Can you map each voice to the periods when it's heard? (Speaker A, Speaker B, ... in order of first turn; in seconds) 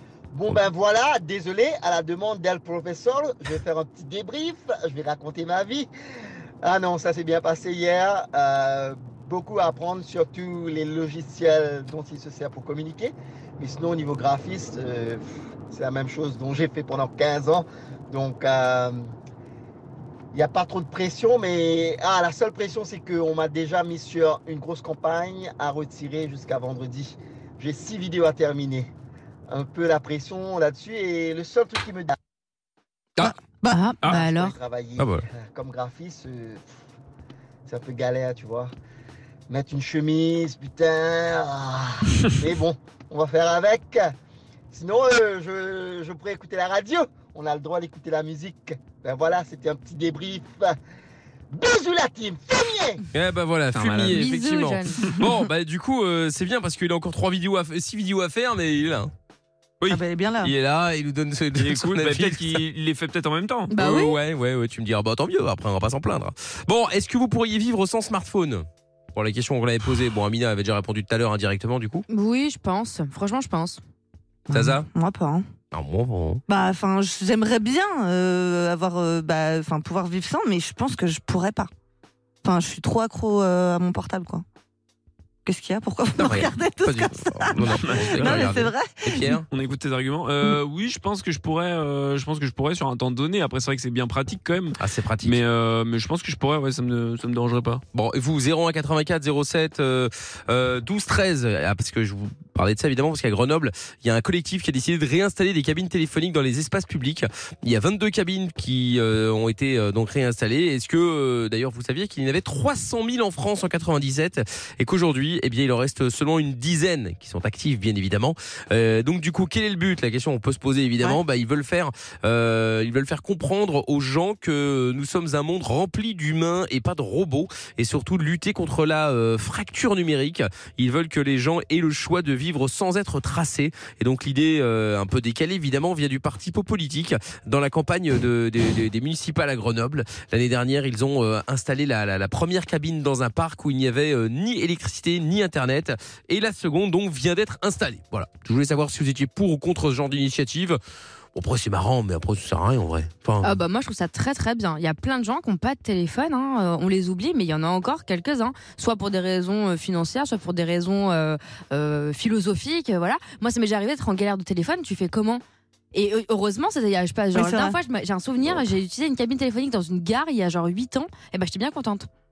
Speaker A: 0.3-5.9, 6.6-19.1, 20.3-28.9, 29.5-32.1, 34.1-36.6, 37.6-38.7, 39.5-44.1, 44.7-50.8, 51.5-53.0
Speaker B: 33.2-33.9, 59.9-60.5, 74.5-75.4, 76.5-81.7, 82.4-84.4, 85.4-89.3, 167.3-167.8
Speaker C: 33.7-34.5, 54.1-55.0, 63.7-64.2, 72.1-73.8, 153.4-165.4, 165.9-172.1
Speaker D: 35.0-35.2, 53.1-59.1, 60.4-62.6, 63.8-72.0, 74.5-74.9, 75.7-76.4, 86.2-89.5, 94.8-95.4, 97.9-150.8, 151.3-153.6
Speaker E: 53.7-54.2, 61.6-63.8, 87.8-88.5, 89.5-97.8